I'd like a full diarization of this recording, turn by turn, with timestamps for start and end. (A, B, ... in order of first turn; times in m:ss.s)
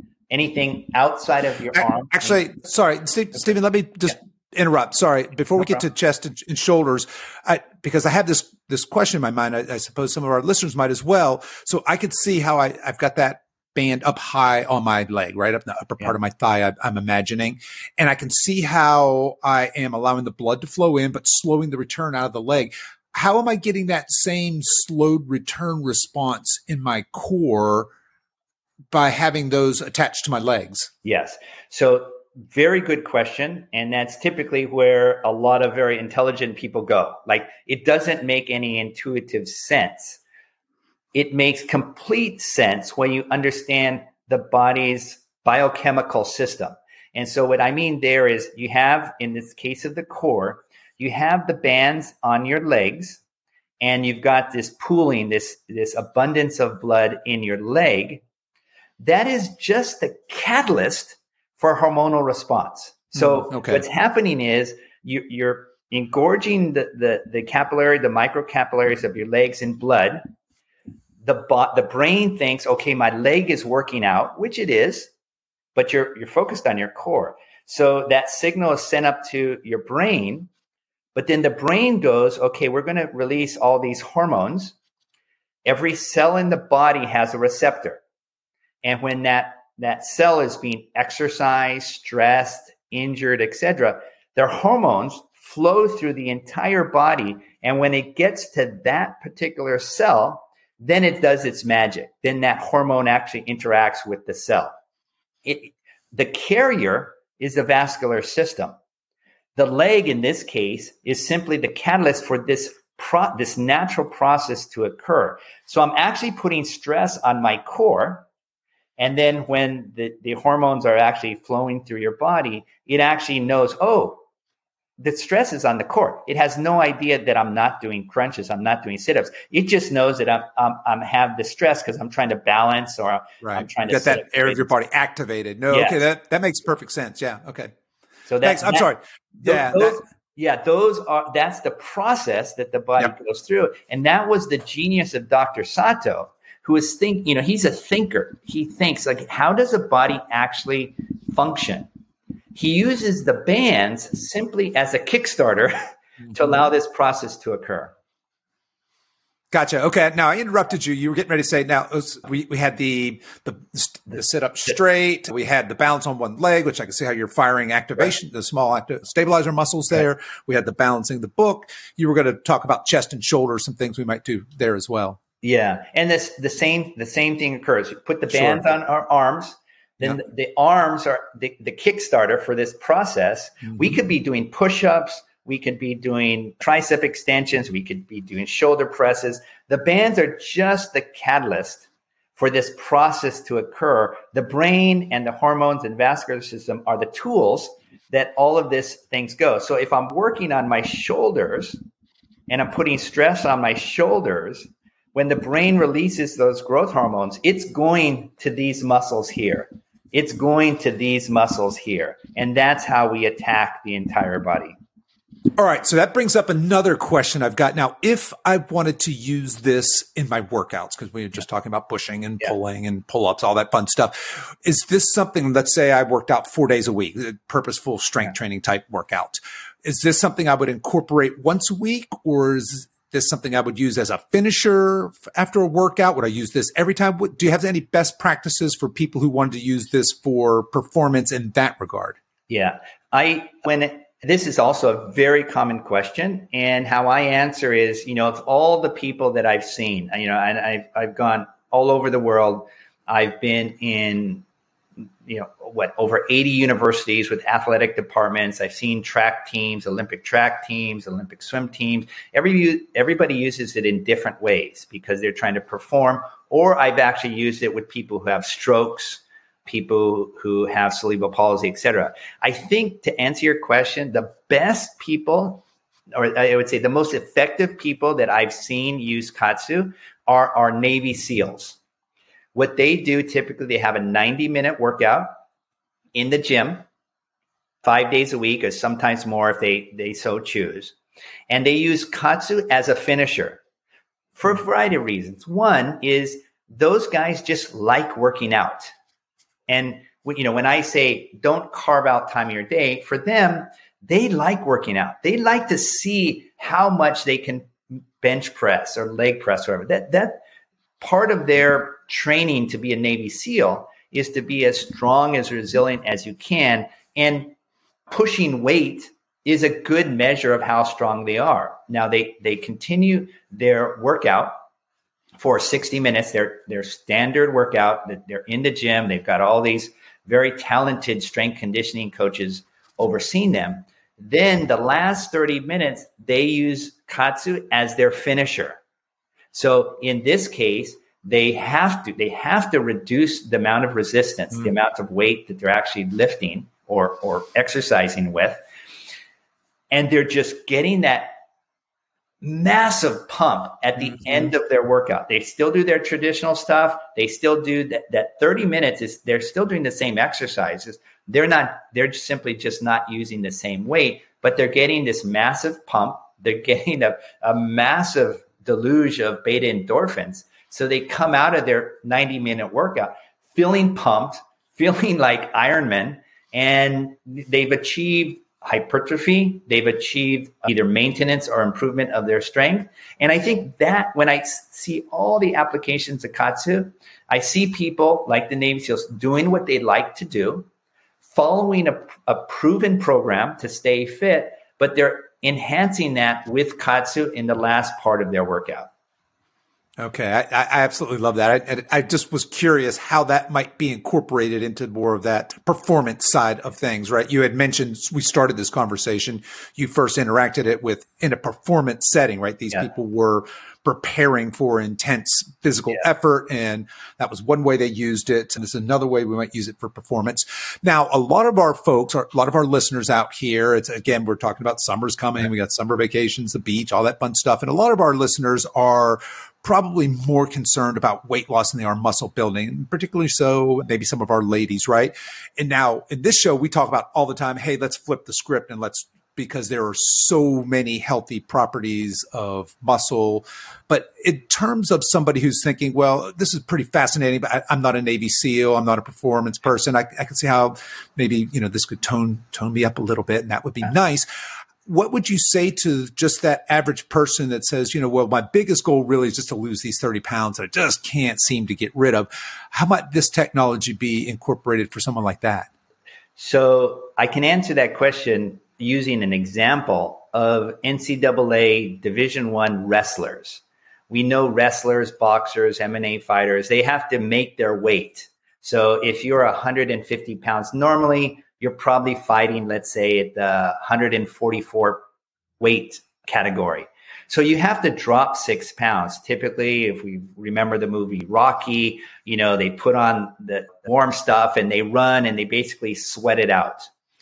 0:00.3-0:02.4 A
0:02.1-0:27.9 B
0:28.9-0:30.9 B
0:31.0-0:40.2 A
0:41.1-0:53.2 A
0:53.8-0:58.2 A
0:59.0-1:10.2 A
1:03.2-1:03.8 B
1:11.2-1:15.1 A
1:15.7-1:20.5 A
1:21.1-1:24.8 A
1:25.6-1:28.0 A
1:28.8-1:44.7 A
1:45.4-1:48.8 A
1:49.6-1:58.3 A
1:59.0-2:04.2 A
2:05.0-2:14.7 A
2:13.4-2:17.7 B
2:15.7-2:16.0 A
2:18.3-2:31.9 A
2:18.4-2:20.0 B
2:32.5-2:35.7 A
2:36.3-2:36.6 B
2:36.3-2:37.9 A
2:39.5-2:55.2 B
2:55.4-3:21.8 A
2:58.3-2:58.6 B
3:03.7-3:04.0 B
3:22.5-3:34.8 A
3:35.6-4:02.2 B
4:02.5-4:14.4 A
4:15.3-4:41.8 A
4:42.6-4:45.4 A
4:46.1-4:46.9 A
4:47.8-4:50.9 A
4:51.5-4:53.6 A
4:54.4-4:58.9 A
4:59.7-5:10.4 A
5:11.0-5:17.5 A
5:18.1-5:24.6 A
5:25.4-5:38.8 A
5:39.5-5:48.6 A
5:49.9-5:51.4 A
5:52.4-6:30.7 A
6:31.3-6:38.9 A
6:40.0-7:34.3 B
7:34.8-7:45.7 B
7:46.4-8:05.0 A
8:05.6-8:16.9 A